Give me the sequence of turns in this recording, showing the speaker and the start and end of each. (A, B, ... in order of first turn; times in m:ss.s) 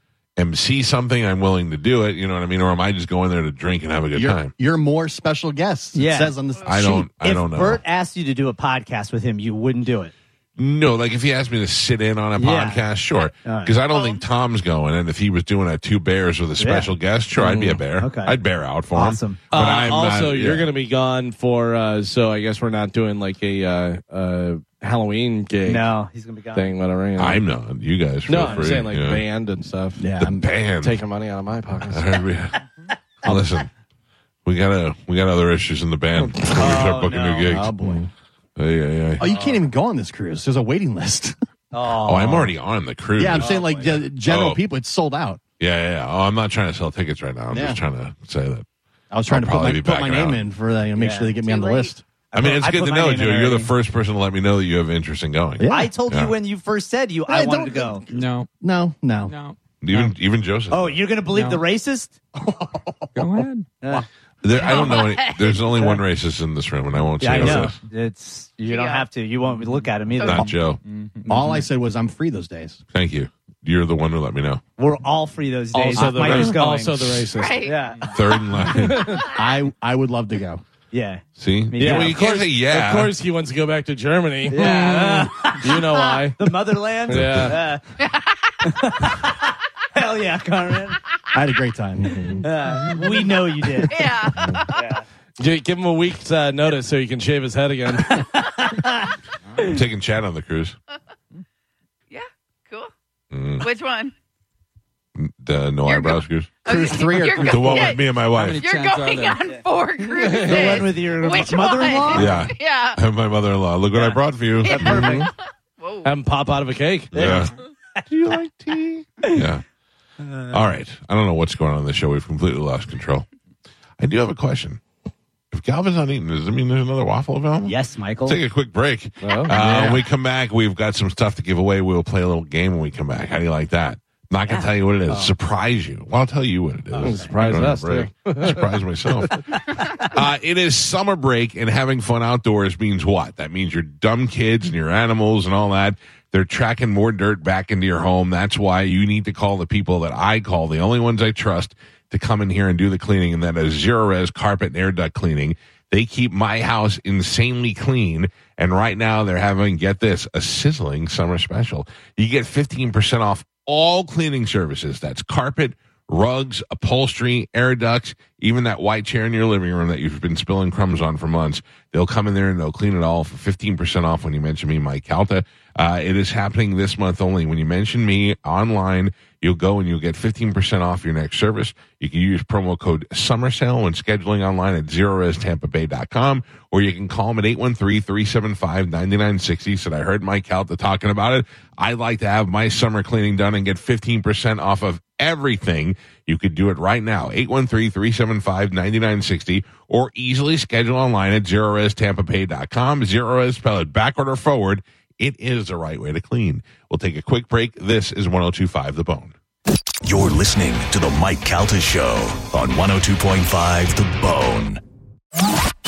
0:00.4-0:04.5 A
0:04.1-0:07.1 B
0:06.0-0:06.3 C
0:06.7-0:07.8 A
0:07.1-0:10.1 C
0:10.6-0:20.7 A
0:12.4-0:12.8 C
0:13.4-0:13.8 C
0:13.9-0:14.2 D
0:16.6-0:16.9 C
0:17.4-0:17.8 E
0:18.0-0:18.4 C
0:18.9-0:19.4 C
0:19.5-0:25.9 E
0:25.7-0:26.8 C
0:26.6-0:27.4 E
0:27.2-0:29.2 A
0:28.3-0:30.1 E
0:30.0-0:30.5 B
0:30.2-0:31.0 A
0:30.8-0:32.1 E
0:31.9-0:32.6 A
0:33.2-0:33.7 A
0:34.4-0:37.8 A
0:36.2-0:36.8 B
0:36.5-0:37.6 C
0:37.5-0:38.1 B
0:38.6-0:39.3 A
0:39.2-0:41.4 B
0:39.2-0:39.6 C
0:41.7-0:42.5 C
0:42.0-0:43.6 A
0:43.2-0:45.4 B
0:43.4-0:44.0 C
0:44.2-0:44.6 A
0:45.6-0:48.7 A
0:47.5-0:47.8 B
0:49.1-0:52.0 B
0:49.3-0:50.4 A
0:51.0-0:51.3 C
0:51.4-0:51.9 D
0:52.3-0:53.7 C
0:52.3-0:56.3 A
0:55.6-0:55.9 B
0:55.7-0:58.0 C
0:57.3-0:59.3 B
0:58.1-0:58.5 F
0:59.3-1:00.1 F
0:59.8-1:01.0 A
1:00.7-1:02.2 C
1:01.3-1:01.6 F
1:02.4-1:03.5 B
1:03.2-1:03.7 F
1:03.8-1:04.1 C
1:04.4-1:07.8 A
1:04.5-1:05.8 D
1:07.2-1:10.5 C
1:08.7-1:09.1 D
1:10.2-1:10.5 D
1:10.2-1:10.8 A
1:10.8-1:11.7 F
1:11.3-1:12.8 B
1:12.9-1:14.6 A
1:14.8-1:18.1 C
1:15.7-1:17.7 E
1:16.0-1:16.6 A
1:17.4-1:17.8 D
1:18.1-1:19.2 A
1:18.8-1:19.2 E
1:19.3-1:20.6 B
1:20.9-1:22.2 C
1:21.4-1:23.1 A
1:21.8-1:26.4 E
1:24.5-1:25.8 C
1:26.0-1:26.2 D
1:26.4-1:27.8 C
1:27.1-1:27.6 E
1:27.1-1:27.5 A
1:28.0-1:28.5 D
1:28.6-1:31.0 C
1:31.3-1:34.6 B
1:32.4-1:34.1 C
1:33.9-1:35.0 D
1:34.7-1:35.0 C
1:35.4-1:38.2 E
1:38.1-1:39.7 C
1:39.6-1:40.8 A
1:42.1-1:42.9 D
1:43.3-1:43.7 A
1:43.6-1:44.1 D
1:45.2-1:46.5 A
1:45.9-1:48.1 D
1:46.6-1:48.0 B
1:47.4-1:48.6 A
1:48.2-1:49.4 F
1:48.6-1:53.0 D
1:50.2-1:52.4 C
1:52.1-1:55.1 A
1:53.9-1:55.3 C
1:54.6-1:56.1 D
1:56.0-1:57.3 E
1:57.1-1:57.5 A
1:57.1-1:59.5 C
1:59.3-1:59.6 A
2:00.2-2:00.6 C
2:00.5-2:03.3 A
2:04.0-2:04.8 A
2:05.5-3:29.4 A
2:07.6-2:08.4 C
2:09.2-2:09.6 E
2:09.5-2:10.0 C
2:14.5-2:15.3 C
2:17.0-2:17.3 C
2:17.0-2:18.7 E
2:19.8-2:20.1 C
3:30.0-3:34.8 G